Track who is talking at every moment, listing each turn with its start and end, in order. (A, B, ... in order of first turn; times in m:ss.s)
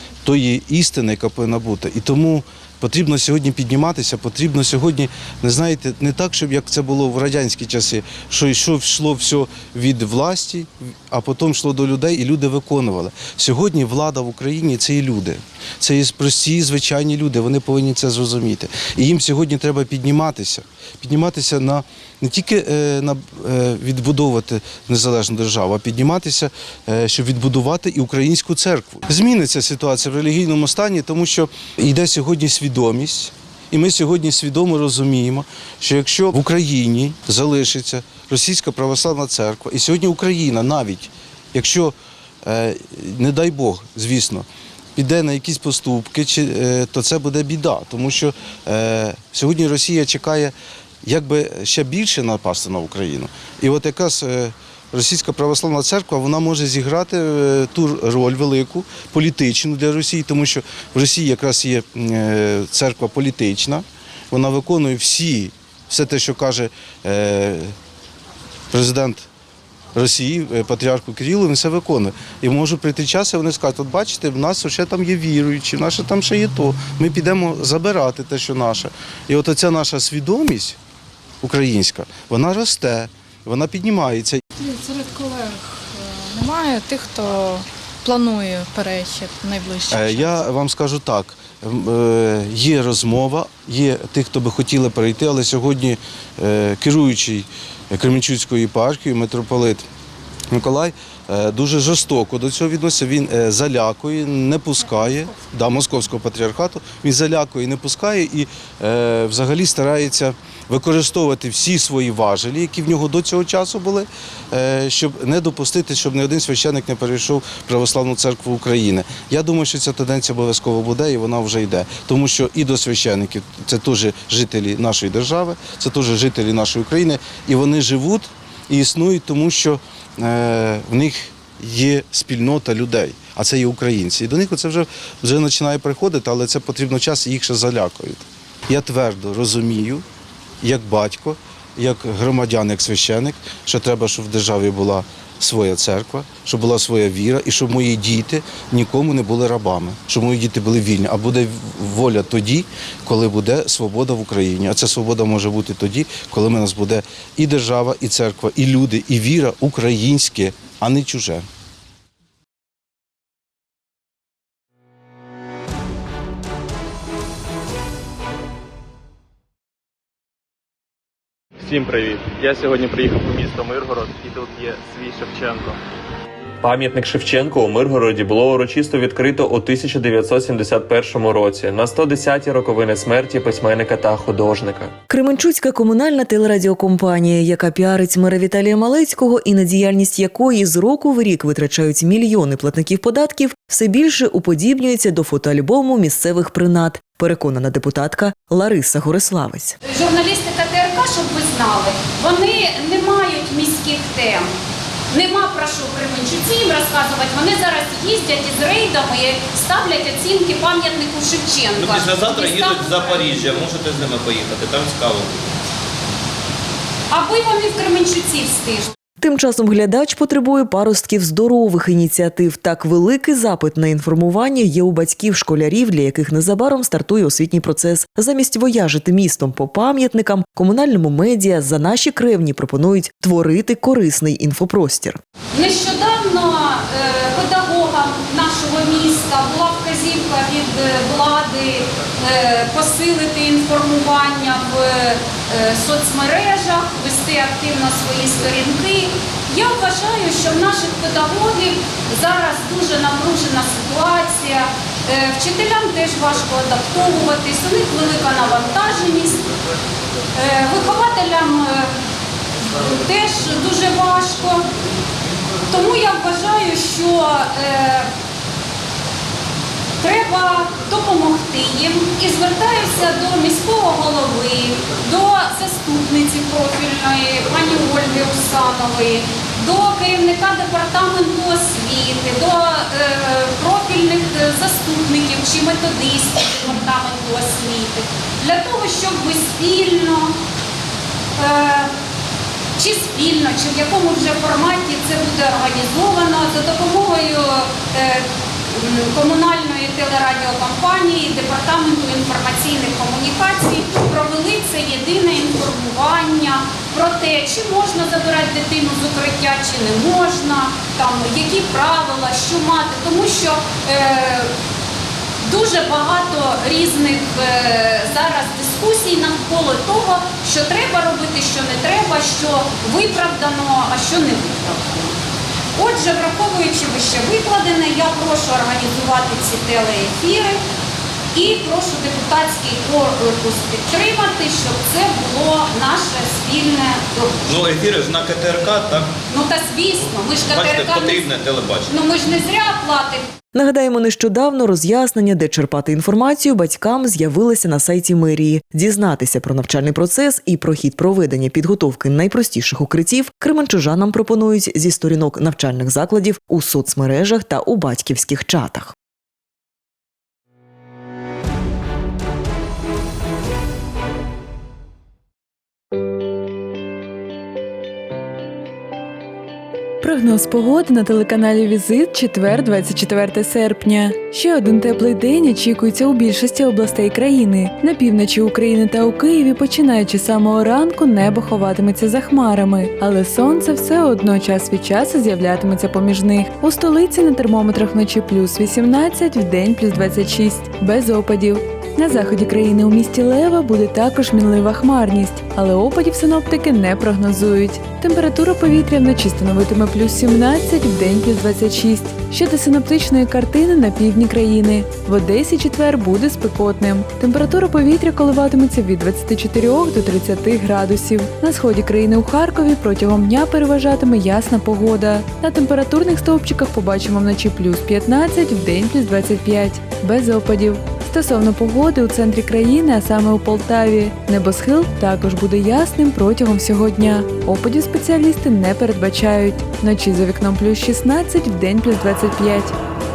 0:00.2-1:07.7 A
1:08.7-1:09.3 A
1:09.9-1:20.8 A
1:21.4-1:24.4 A
1:24.6-1:30.5 B
1:29.9-1:39.8 A
1:40.5-2:20.0 A
2:20.6-2:41.5 A
2:51.6-2:55.8 C
2:56.6-3:05.0 D
3:05.1-3:19.8 E
3:19.9-3:24.5 F
3:25.1-3:33.3 F
3:31.8-3:35.5 G
3:37.1-3:38.9 F
3:39.2-3:55.2 E
3:55.5-4:19.5 F
4:20.3-4:21.9 F
4:22.7-4:24.6 F
4:25.7-4:28.1 F
4:30.0-4:50.3 F
4:51.4-4:51.9 F
4:52.8-5:14.5 F
5:15.4-5:25.1 F
5:25.8-5:30.6 F
5:31.3-5:37.4 F
5:37.4-5:39.1 G
5:39.3-5:41.3 F
5:40.5-5:41.9 G
5:41.9-5:43.3 F
5:43.5-5:58.9 E
6:10.0-7:12.7 H